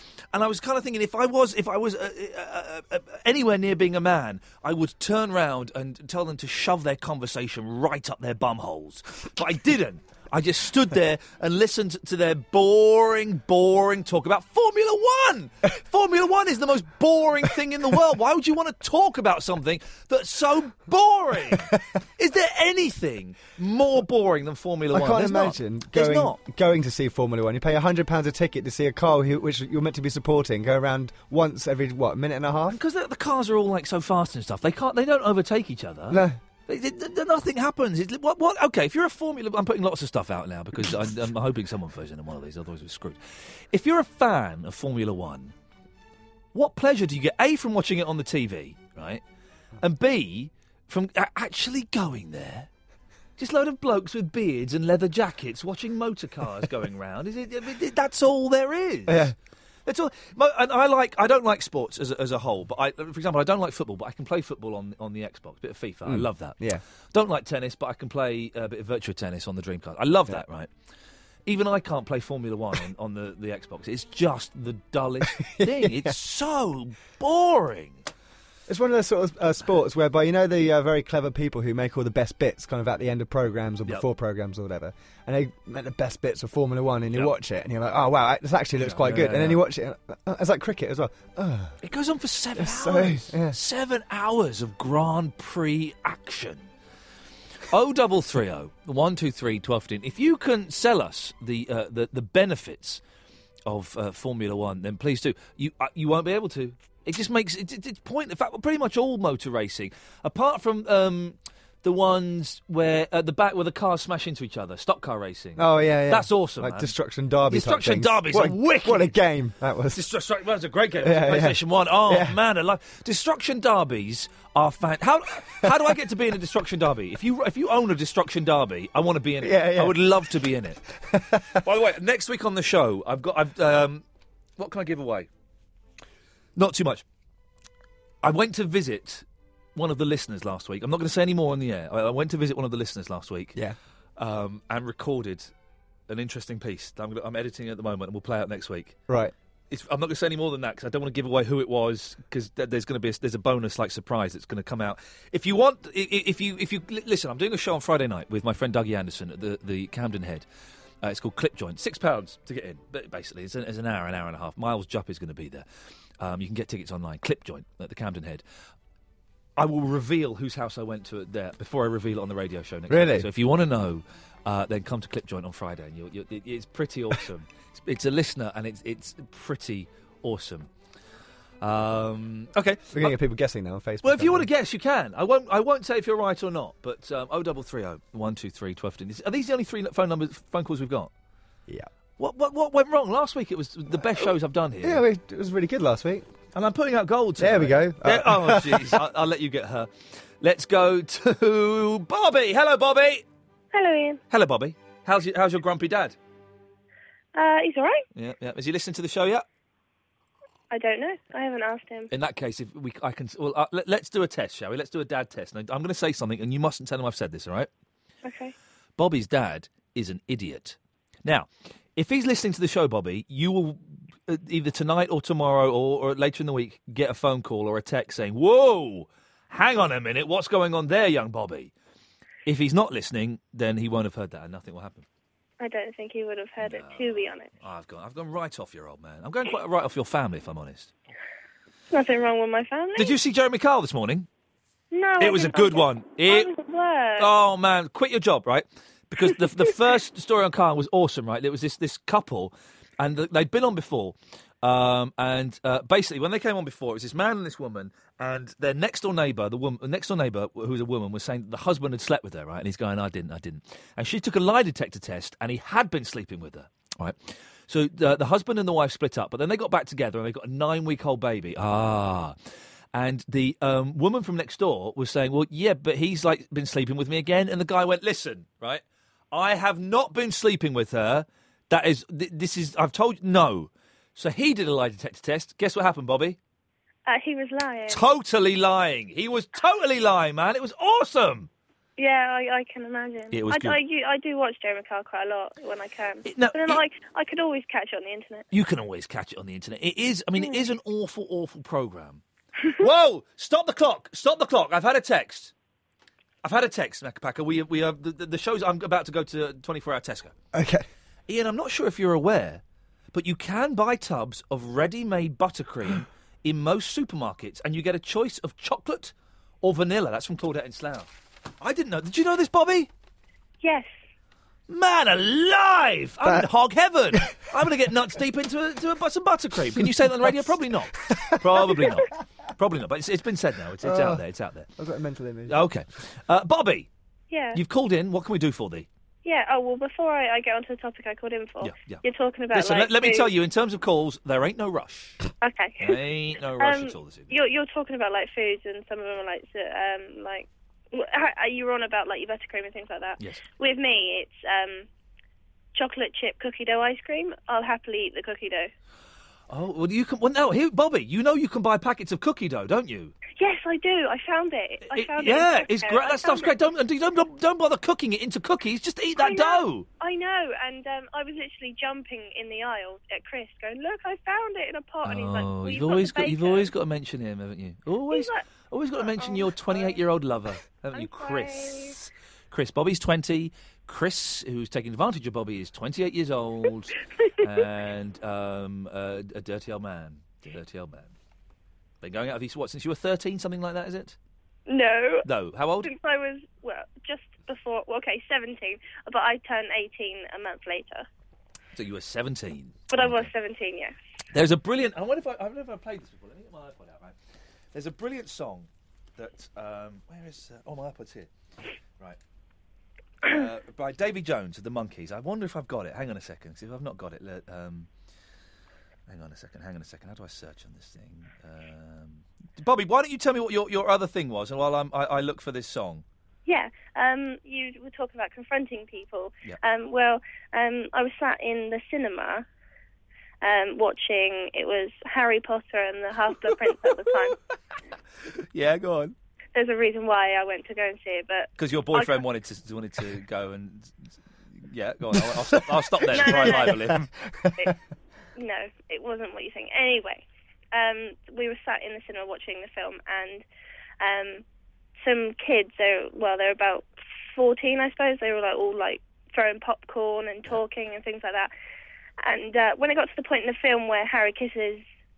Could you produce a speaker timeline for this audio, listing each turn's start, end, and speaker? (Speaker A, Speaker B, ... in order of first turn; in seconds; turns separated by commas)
Speaker A: 0.3-26.4, Speaker B: 24.9-32.8, Speaker A: 32.7-45.5, Speaker B: 36.1-36.4, Speaker A: 46.5-49.2, Speaker A: 49.8-52.7, Speaker A: 53.4-59.3, Speaker B: 59.1-59.3, Speaker A: 59.9-66.6, Speaker B: 66.0-66.8, Speaker A: 67.1-70.7, Speaker A: 71.5-78.0, Speaker B: 75.4-76.1, Speaker B: 78.7-91.8, Speaker A: 88.8-89.6, Speaker A: 91.8-96.7, Speaker B: 92.5-93.6, Speaker A: 97.7-103.0, Speaker A: 103.7-116.9, Speaker B: 115.6-120.0, Speaker A: 117.5-119.1, Speaker A: 119.9-130.8, Speaker B: 121.0-122.4, Speaker B: 129.4-130.0, Speaker B: 131.1-131.5, Speaker A: 131.5-134.0, Speaker A: 134.6-135.3, Speaker A: 136.6-137.0, Speaker A: 138.2-143.6, Speaker A: 144.2-145.5, Speaker A: 146.1-149.0, Speaker A: 149.7-160.4, Speaker A: 161.0-165.7, Speaker A: 166.2-168.4, Speaker A: 169.6-180.7, Speaker B: 172.9-173.3, Speaker A: 181.6-183.1, Speaker B: 182.9-184.5, Speaker A: 184.0-191.1, Speaker A: 192.2-195.0, Speaker B: 194.8-196.3, Speaker A: 196.5-203.2, Speaker B: 197.4-199.0, Speaker C: 203.7-204.2, Speaker A: 204.3-206.2, Speaker C: 207.3-208.1, Speaker A: 208.1-209.4, Speaker C: 210.7-212.1, Speaker A: 212.1-217.7, Speaker C: 218.2-218.5, Speaker A: 219.0-231.7, Speaker A: 232.4-235.1, Speaker C: 235.6-237.5, Speaker A: 236.6-240.9, Speaker C: 241.9-243.1, Speaker A: 242.9-244.3, Speaker C: 244.9-247.3, Speaker A: 245.2-246.5, Speaker A: 247.2-272.4, Speaker A: 272.9-286.4, Speaker C: 287.1-288.0, Speaker A: 287.9-291.5, Speaker C: 292.0-298.5, Speaker A: 293.3-293.8, Speaker A: 296.2-296.8, Speaker A: 298.5-302.2, Speaker A: 302.7-305.5, Speaker A: 306.4-310.3, Speaker B: 310.5-310.8, Speaker A: 311.3-312.6, Speaker A: 313.1-322.9, Speaker C: 323.6-323.9, Speaker A: 324.7-334.7, Speaker B: 331.1-331.4, Speaker B: 333.8-334.2, Speaker B: 334.8-335.6, Speaker A: 335.5-336.9, Speaker C: 337.3-337.6, Speaker A: 337.5-338.9, Speaker C: 339.2-343.3, Speaker A: 341.6-345.2, Speaker C: 345.4-346.0, Speaker A: 345.8-347.4, Speaker C: 346.6-354.9, Speaker A: 353.2-353.4, Speaker C: 355.7-358.7, Speaker A: 359.5-363.1, Speaker C: 363.4-366.5, Speaker A: 364.9-369.9, Speaker C: 369.2-376.7, Speaker A: 375.0-391.1, Speaker C: 378.1-378.5, Speaker C: 379.0-380.0, Speaker C: 380.9-381.9, Speaker A: 392.0-394.2, Speaker C: 394.7-395.2, Speaker A: 395.2-395.9, Speaker C: 395.8-401.1, Speaker A: 401.7-403.3, Speaker C: 402.9-403.9, Speaker A: 404.3-407.1, Speaker A: 407.7-411.3, Speaker A: 413.2-417.9, Speaker A: 419.1-426.0, Speaker C: 426.4-432.4, Speaker C: 433.4-437.4, Speaker A: 438.5-439.1, Speaker C: 439.5-442.2, Speaker A: 441.6-444.1, Speaker A: 444.6-447.1, Speaker C: 446.1-446.8, Speaker B: 446.8-447.5, Speaker C: 448.4-453.4, Speaker C: 454.0-454.4, Speaker C: 455.0-461.5, Speaker C: 462.2-464.8